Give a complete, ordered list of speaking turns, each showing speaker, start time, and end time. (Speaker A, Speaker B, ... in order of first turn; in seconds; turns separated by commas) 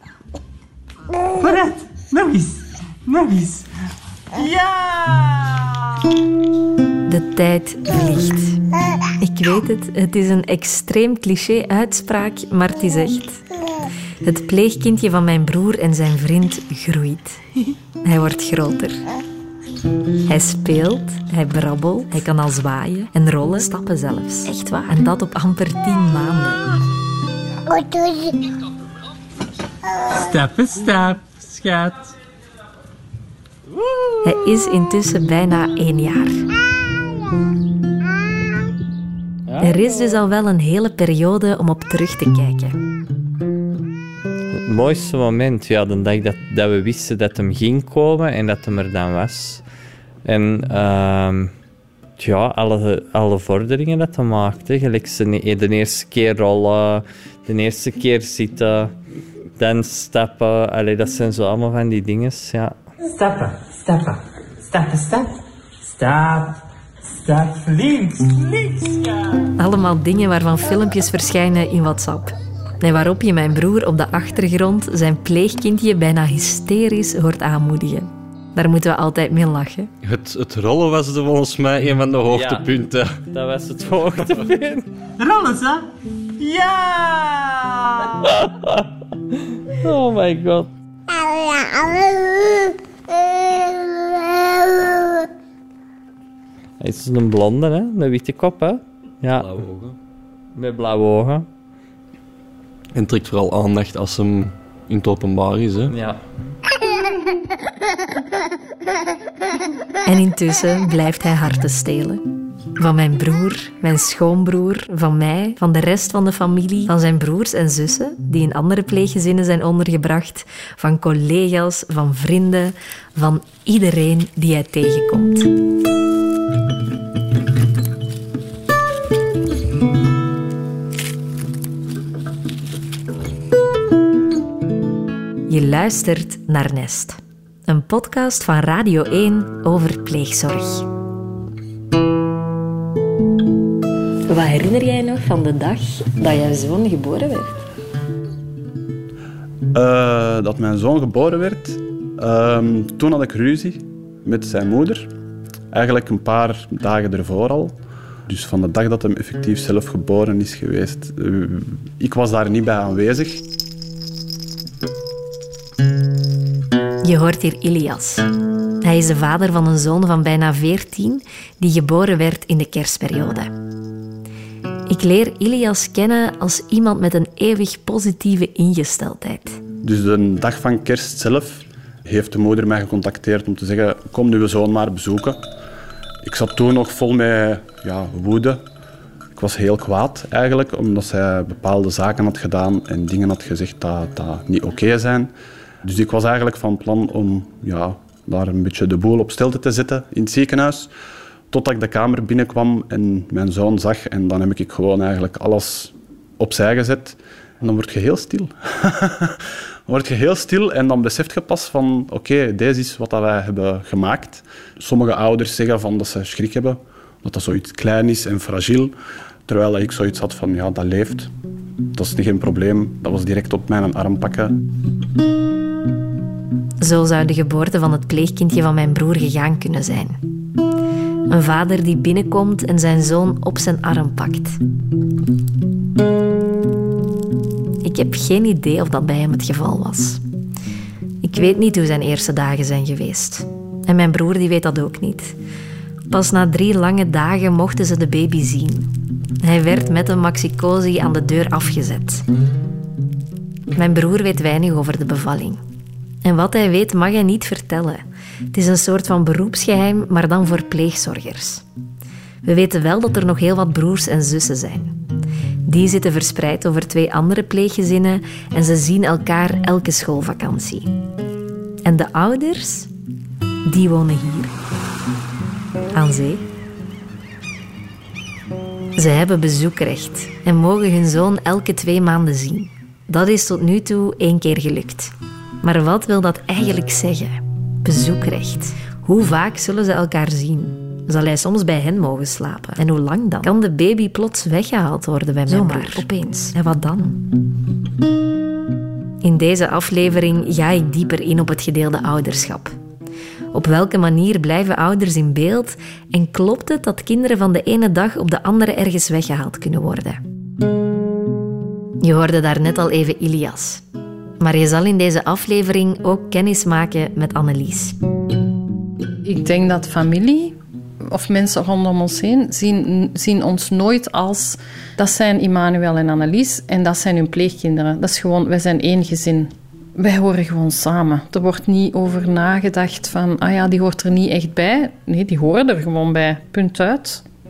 Speaker A: 1.4-3.7, Speaker A: 4.3-5.6, Speaker B: 7.1-8.6, Speaker B: 9.2-13.4, Speaker B: 14.2-17.4, Speaker B: 18.0-19.0, Speaker B: 20.3-26.6, Speaker A: 30.1-32.0, Speaker B: 34.2-36.4, Speaker C: 39.5-39.8, Speaker B: 39.6-42.7, Speaker C: 44.5-49.6, Speaker C: 50.2-51.5, Speaker C: 52.2-58.9, Speaker C: 59.6-62.8, Speaker A: 63.0-69.3, Speaker B: 69.6-79.9, Speaker D: 80.0-83.1, Speaker C: 82.3-84.9, Speaker A: 85.2-85.8, Speaker A: 86.4-88.1, Speaker C: 88.2-90.7, Speaker C: 96.8-99.6, Speaker D: 99.3-99.9, Speaker C: 100.5-101.5, Speaker D: 102.9-105.9, Speaker C: 105.9-106.2, Speaker B: 110.0-112.2, Speaker B: 112.8-125.5, Speaker B: 135.5-140.8, Speaker B: 144.3-147.6, Speaker E: 149.7-155.1, Speaker E: 155.7-157.7, Speaker E: 158.3-163.4, Speaker B: 167.0-168.2, Speaker B: 168.8-173.5, Speaker B: 174.9-179.6, Speaker E: 179.8-185.4, Speaker E: 186.2-188.6, Speaker E: 189.3-195.3, Speaker E: 195.8-200.9, Speaker E: 201.5-218.9, Speaker E: 219.4-221.3, Speaker E: 221.9-224.6, Speaker B: 226.8-230.2, Speaker B: 231.3-234.6, Speaker B: 237.8-240.2, Speaker B: 241.2-245.3, Speaker B: 246.1-248.9, Speaker B: 249.4-252.2, Speaker B: 253.7-255.6, Speaker B: 256.2-261.6, Speaker B: 262.4-264.9, Speaker B: 265.6-270.9, Speaker B: 271.8-272.9, Speaker B: 273.6-274.5, Speaker B: 275.9-276.4, Speaker B: 278.9-297.2, Speaker B: 299.2-302.7, Speaker B: 303.5-310.2, Speaker B: 312.0-313.8, Speaker B: 314.4-317.9, Speaker F: 319.2-337.2